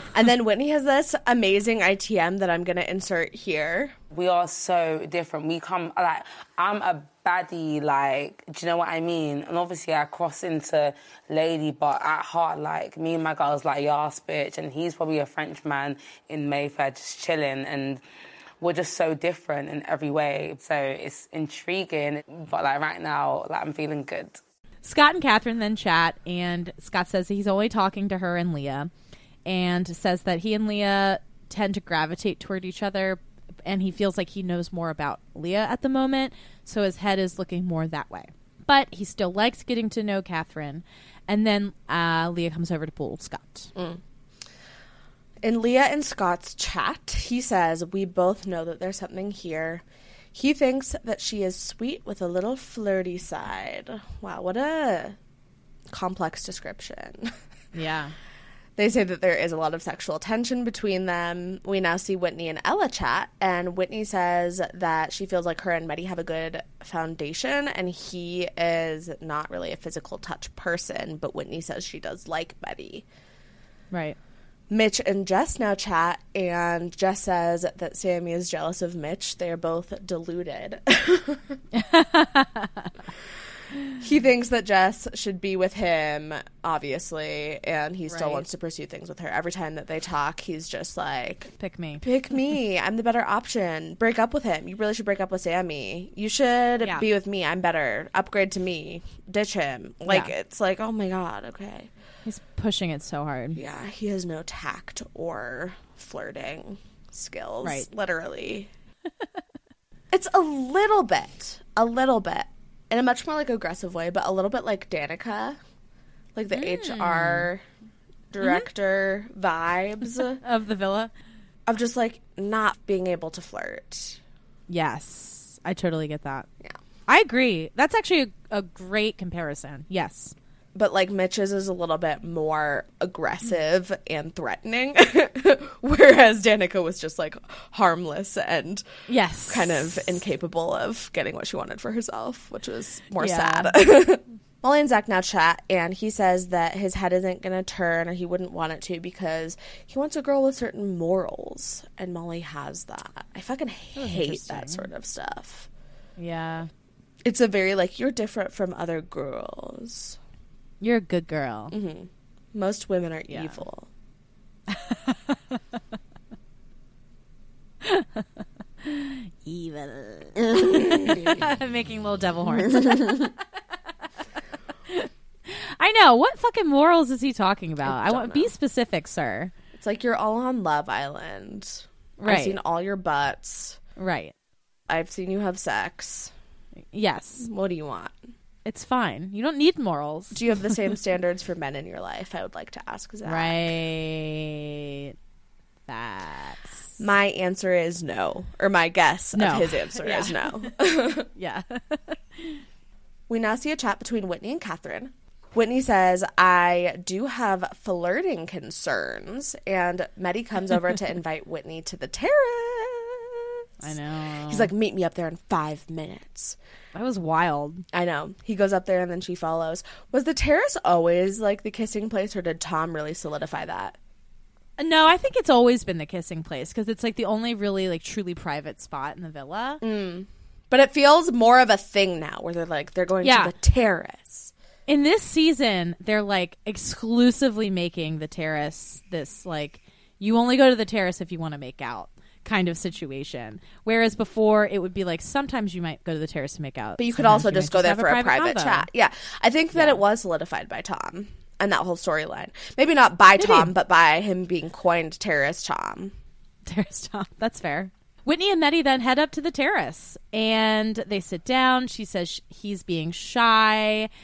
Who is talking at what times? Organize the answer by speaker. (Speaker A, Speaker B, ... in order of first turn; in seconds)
Speaker A: 0.1-3.9, 43.8-44.0, 45.4-49.8, 50.3-55.2, 55.9-57.3, 58.8-73.0, 74.7-81.6, 84.0-91.5, 92.0-101.9, 103.5-108.7, 110.1-115.6, 116.3-117.6, 118.3-120.4, 121.7-124.2, 130.8-138.8, 139.5-155.7, 157.2-160.2, 161.7-163.9, 171.1-171.3, 177.8-178.5, 179.7-183.8, 184.9-186.3, 187.4-188.2, 190.3-193.7, 197.0-201.3, 203.3-213.5, 214.5-216.6, 217.9-224.0, 229.8-234.5, 247.0-256.1
Speaker B: 4.1-18.0, 18.6-24.4
Speaker C: 24.8-28.9, 29.5-43.7, 57.7-58.1, 73.9-74.2, 81.7-82.9, 88.1-88.4, 91.6-92.0, 102.2-103.6, 116.5-117.5, 118.4-118.7, 120.4-121.1, 124.7-126.5, 127.1-130.3, 139.1-139.9, 143.2-143.8, 154.0-154.9, 156.2-156.7, 160.8-161.7, 163.3-163.6, 164.7-165.6, 167.8-168.2, 168.8-173.3, 174.9-179.5, 182.2-182.6, 184.0-184.3, 186.9-187.5, 188.7-190.4, 193.3-195.2, 195.9-196.9, 199.3-200.7, 201.3-202.6, 213.8-214.7, 216.9-217.8, 224.8-229.8, 233.2-233.5, 234.9-248.9, 249.7-250.0, 253.4-253.7, 256.7-264.1